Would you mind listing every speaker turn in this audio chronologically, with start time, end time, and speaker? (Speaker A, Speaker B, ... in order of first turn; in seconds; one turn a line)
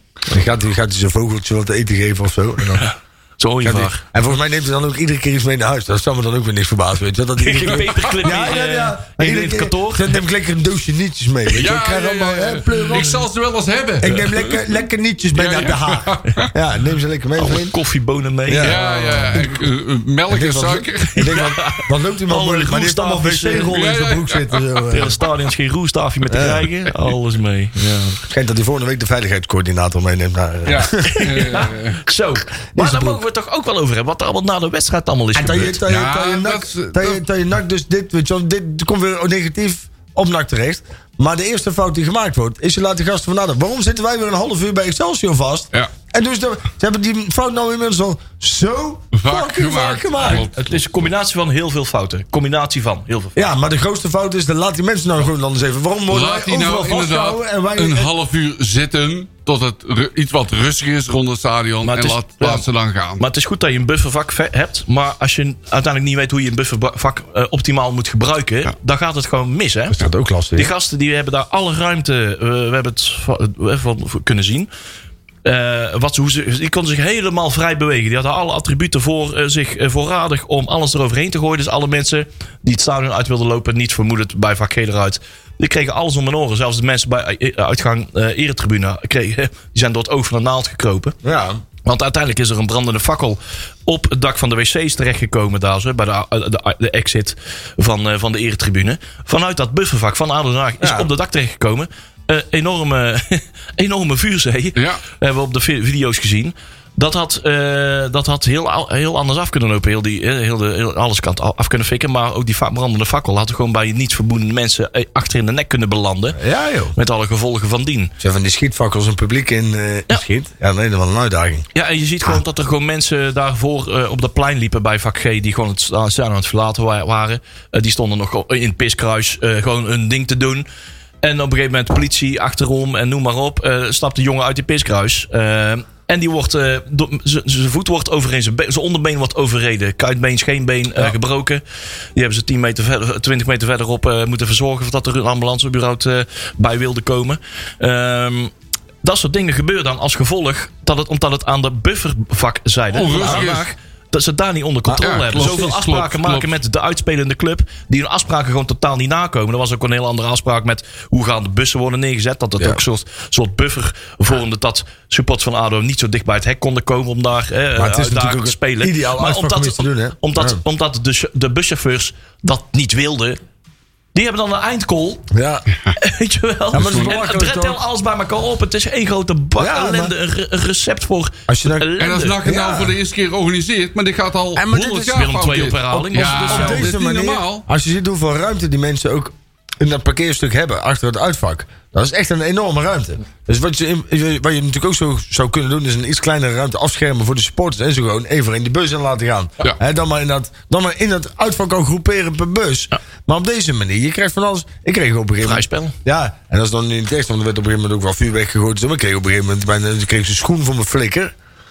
Speaker A: 0.3-2.9
Speaker B: 2.8-4.0
Speaker A: 3.6-13.2
Speaker B: 7.4-10.2
Speaker C: 11.5-14.6
Speaker A: 14.0-17.8
Speaker C: 15.3-16.5
Speaker B: 17.4-19.4
Speaker A: 18.5-19.5
Speaker C: 18.6-21.5
Speaker A: 20.3-25.2
Speaker B: 21.1-23.8
Speaker C: 23.7-24.8
Speaker B: 24.9-28.2
Speaker A: 26.3-26.7
Speaker A: 28.3-31.6
Speaker C: 30.6-32.0
Speaker B: 31.1-35.8
Speaker A: 32.7-33.2
Speaker A: 35.3-50.5
Speaker C: 35.9-37.2
Speaker C: 49.1-50.8
Speaker B: 50.2-53.4
Speaker A: 53.3-58.1
Speaker C: 56.1-63.2
Speaker B: 61.8-62.6
Speaker B: 63.2-74.7
Speaker A: 69.9-70.7
Speaker B: 75.4-91.2
Speaker A: 91.2-91.6
Speaker B: 91.8-116.4
Speaker A: 100.8-101.1
Speaker C: 104.8-105.0
Speaker A: 116.3-116.9
Speaker B: 116.9-118.1
Speaker A: 118.2-121.6
Speaker B: 121.7-130.7
Speaker B: 131.2-141.6
Speaker B: 142.1-148.5
Speaker B: 149.0-173.4
Speaker C: 152.9-153.7
Speaker A: 153.2-153.5
Speaker A: 154.9-155.7
Speaker C: 155.0-156.5
Speaker A: 167.8-170.6
Speaker B: 174.1-175.3
Speaker A: 175.3-175.6
Speaker B: 176.0-182.4
Speaker A: 176.7-177.8
Speaker C: 176.7-177.2
Speaker A: 179.6-180.1
Speaker A: 181.5-181.9
Speaker C: 182.0-187.6
Speaker A: 182.4-182.9
Speaker A: 184.5-211.3
Speaker B: 185.1-186.9
Speaker B: 205.4-205.9